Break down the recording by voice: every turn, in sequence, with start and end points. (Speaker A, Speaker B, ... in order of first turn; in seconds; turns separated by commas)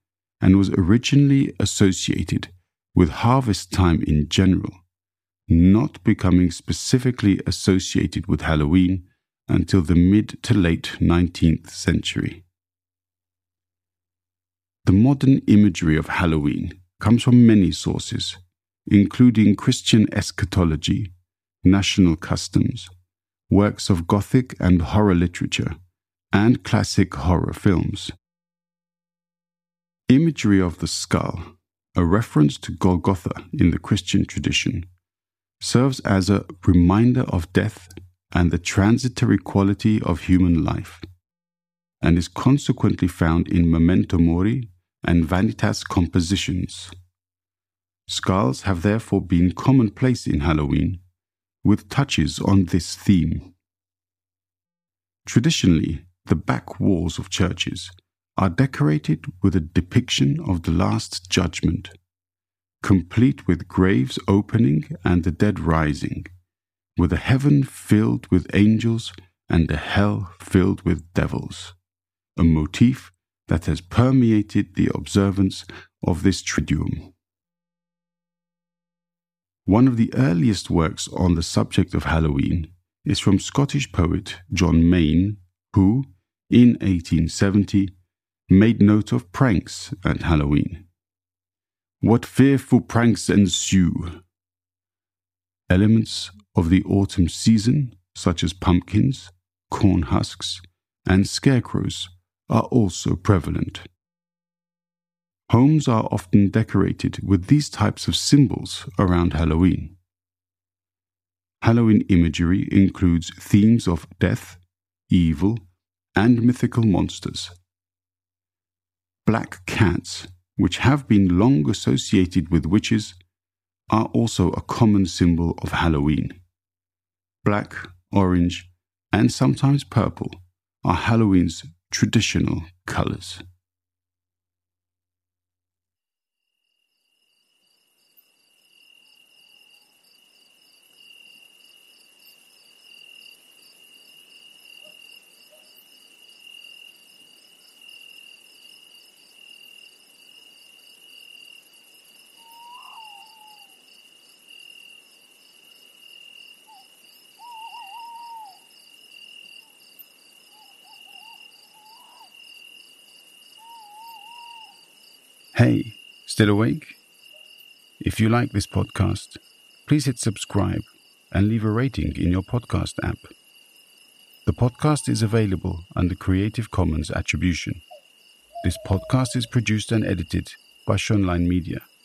Speaker A: 0.4-4.8, Speaker A: 5.5-12.4, Speaker A: 14.8-22.9, Speaker A: 23.5-25.7, Speaker A: 26.3-28.1, Speaker A: 30.1-34.9, Speaker A: 35.6-41.0, Speaker A: 42.0-46.9, Speaker A: 48.1-51.0, Speaker A: 51.6-53.5, Speaker A: 55.2-61.9, Speaker A: 62.8-66.3, Speaker A: 67.0-71.8, Speaker A: 72.3-77.1, Speaker A: 79.7-87.9, Speaker A: 88.5-90.9, Speaker A: 92.0-94.2, Speaker A: 95.7-103.9, Speaker A: 105.5-110.0, Speaker A: 111.6-115.6, Speaker A: 116.2-117.5, Speaker A: 119.2-123.2, Speaker A: 123.9-126.4, Speaker A: 127.4-133.4, Speaker A: 165.5-167.0, Speaker A: 168.0-173.3, Speaker A: 174.4-177.8, Speaker A: 178.6-181.9